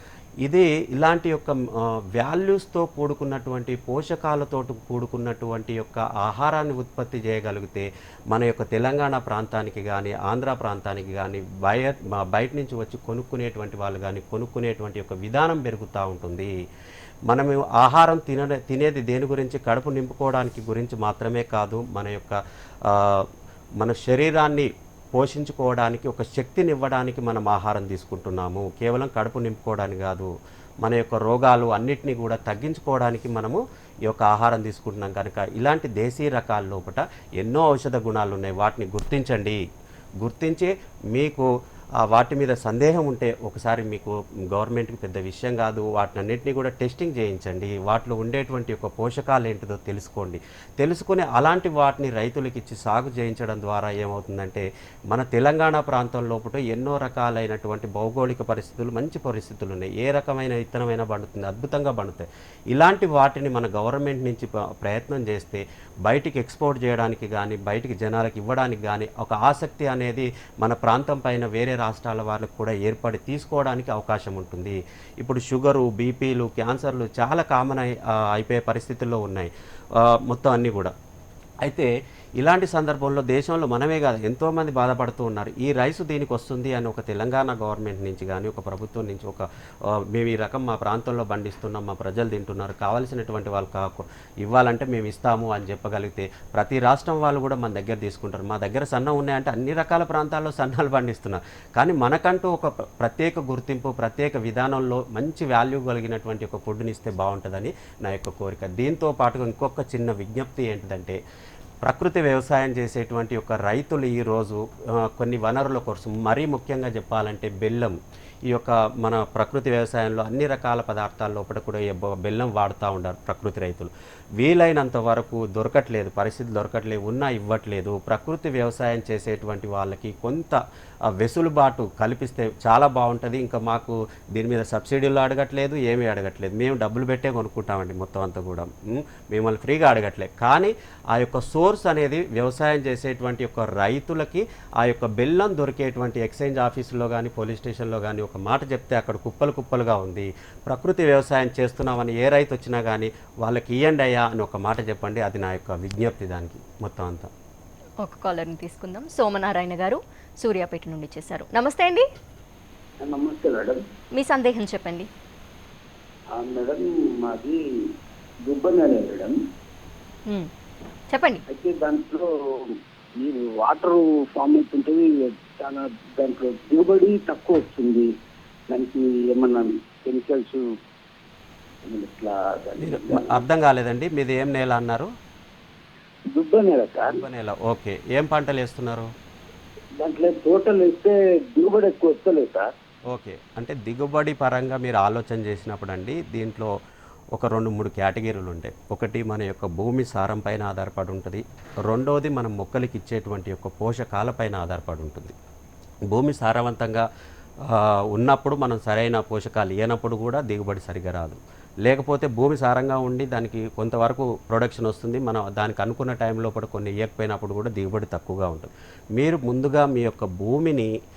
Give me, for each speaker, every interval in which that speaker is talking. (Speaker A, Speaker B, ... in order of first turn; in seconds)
Speaker A: 0.4-16.5, 17.3-23.3, 23.8-30.3, 30.8-39.6, 40.2-80.9, 81.6-111.2, 111.8-118.0, 118.5-130.6, 131.1-157.3, 182.8-185.1, 187.1-189.1, 193.1-196.7, 197.3-205.3, 206.1-207.1, 207.6-220.9
Speaker B: 158.0-162.1, 164.1-165.1, 171.1-171.4
Speaker C: 163.0-163.8, 166.3-167.6, 168.4-169.4, 171.5-178.1, 178.7-180.6, 181.8-183.4, 186.3-187.2, 190.0-192.7